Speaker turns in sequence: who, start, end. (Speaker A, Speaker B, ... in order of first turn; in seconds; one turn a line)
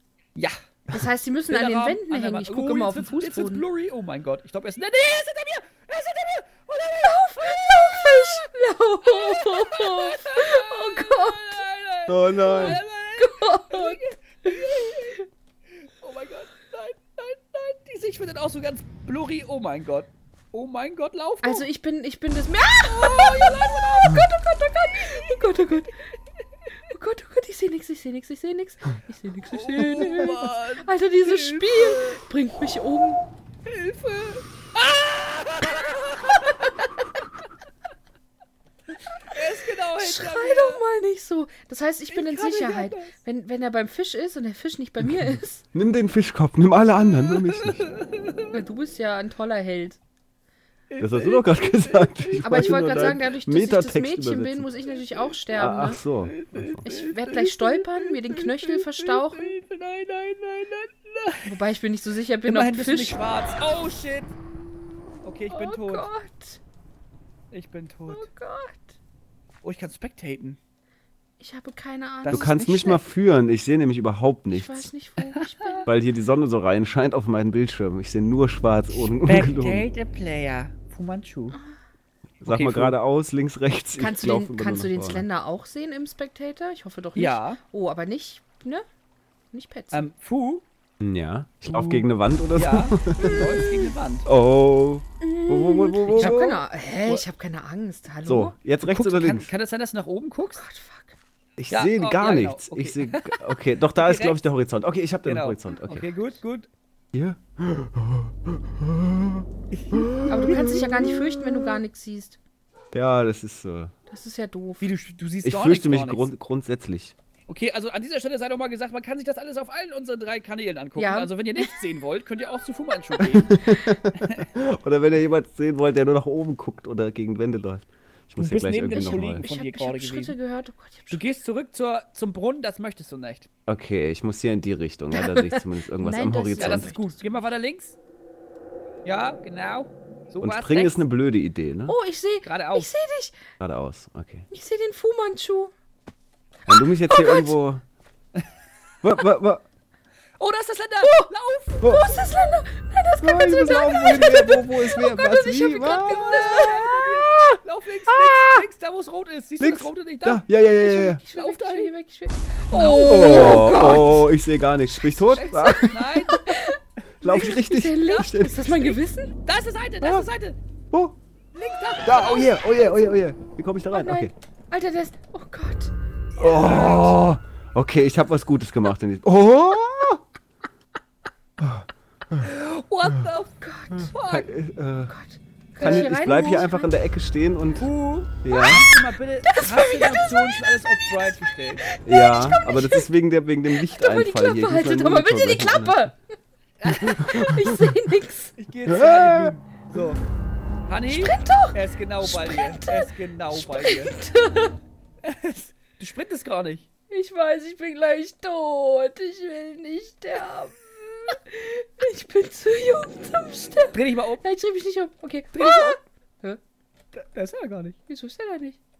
Speaker A: 0.9-3.6
Speaker B: 1.5-8.5
Speaker A: 7.0-11.6
Speaker B: 9.0-15.2
Speaker C: 12.1-12.8
Speaker A: 12.5-14.8
Speaker B: 15.9-21.7
Speaker A: 21.4-26.0
Speaker B: 22.8-24.4
Speaker B: 25.0-25.8
Speaker A: 26.9-33.2
Speaker B: 29.5-32.2
Speaker B: 33.6-37.2
Speaker B: 39.2-40.8
Speaker A: 39.9-45.6
Speaker B: 42.1-43.1
Speaker C: 45.7-47.9
Speaker B: 47.3-48.6
Speaker A: 48.5-50.0
Speaker B: 50.9-53.2
Speaker C: 51.0-54.7
Speaker A: 52.4-56.0
Speaker C: 55.5-56.9
Speaker B: 56.3-61.6
Speaker A: 56.8-59.5
Speaker A: 61.5-63.2
Speaker B: 62.4-64.3
Speaker B: 65.2-66.1
Speaker A: 65.5-66.6
Speaker B: 67.5-68.3
Speaker A: 68.1-69.0
Speaker B: 69.6-70.6
Speaker A: 71.4-73.0
Speaker B: 72.2-72.6
Speaker C: 72.3-74.9
Speaker A: 74.5-75.9
Speaker B: 75.4-75.8
Speaker C: 75.9-79.9
Speaker B: 79.0-81.6
Speaker C: 82.4-85.2
Speaker B: 82.5-83.0
Speaker A: 84.0-88.8
Speaker B: 87.2-87.6
Speaker A: 89.5-90.0
Speaker B: 89.9-90.6
Speaker C: 91.0-96.6
Speaker B: 91.7-94.3
Speaker A: 95.2-98.6
Speaker B: 96.1-96.5
Speaker C: 98.3-99.5
Speaker B: 98.8-100.6
Speaker A: 100.6-101.2
Speaker C: 101.6-106.1
Speaker B: 101.7-104.4
Speaker B: 105.2-106.7
Speaker C: 107.1-111.5
Speaker B: 109.7-110.8
Speaker A: 110.3-112.4
Speaker C: 112.9-113.9
Speaker A: 114.1-114.9
Speaker B: 114.8-116.3
Speaker C: 115.4-117.2
Speaker B: 117.5-123.5
Speaker A: 121.0-121.8
Speaker C: 123.3-129.5
Speaker B: 128.4-130.4
Speaker A: 129.4-131.2
Speaker B: 131.1-133.5
Speaker C: 133.7-136.9
Speaker A: 135.1-137.2
Speaker B: 136.6-138.0
Speaker B: 139.1-141.0
Speaker C: 140.4-142.0
Speaker A: 141.9-143.4
Speaker B: 142.4-142.9
Speaker C: 143.6-144.5
Speaker A: 144.5-145.7
Speaker A: 146.6-147.6
Speaker C: 146.7-147.8
Speaker C: 149.0-149.6
Speaker B: 150.4-152.3
Speaker A: 151.0-157.5
Speaker C: 151.8-152.2
Speaker C: 153.2-156.3
Speaker B: 155.9-160.5
Speaker C: 158.3-158.6
Speaker C: 159.6-161.2
Speaker A: 160.8-164.3
Speaker B: 161.3-161.9
Speaker B: 162.7-163.9
Speaker C: 163.0-166.0
Speaker A: 165.0-169.3
Speaker B: 165.3-166.8
Speaker C: 167.2-168.7
Speaker B: 169.4-170.6
Speaker C: 170.0-170.3
Speaker C: 170.9-171.2
Speaker B: 171.5-172.9
Speaker C: 172.0-174.3
Speaker A: 173.9-175.9
Speaker B: 176.4-177.2
Speaker C: 176.4-180.2
Speaker C: 181.6-182.5
Speaker B: 182.4-183.6
Speaker A: 183.6-184.2
Speaker C: 183.9-185.1
Speaker B: 184.1-184.5
Speaker A: 185.1-186.9
Speaker B: 185.8-186.6
Speaker C: 185.8-187.9
Speaker B: 187.8-191.8
Speaker C: 188.4-188.9
Speaker A: 188.5-188.8
Speaker A: 189.4-191.1
Speaker A: 191.8-193.1
Speaker C: 192.1-196.0
Speaker A: 193.8-196.2
Speaker B: 196.8-197.2
Speaker A: 196.9-198.5
Speaker C: 197.2-197.9
Speaker B: 198.6-200.2
Speaker C: 198.9-199.6
Speaker B: 200.9-204.1
Speaker A: 201.1-204.8
Speaker B: 205.2-206.9
Speaker A: 207.1-216.6
Speaker B: 213.9-214.4
Speaker B: 215.5-216.0
Speaker B: 217.1-218.0
Speaker A: 218.1-218.8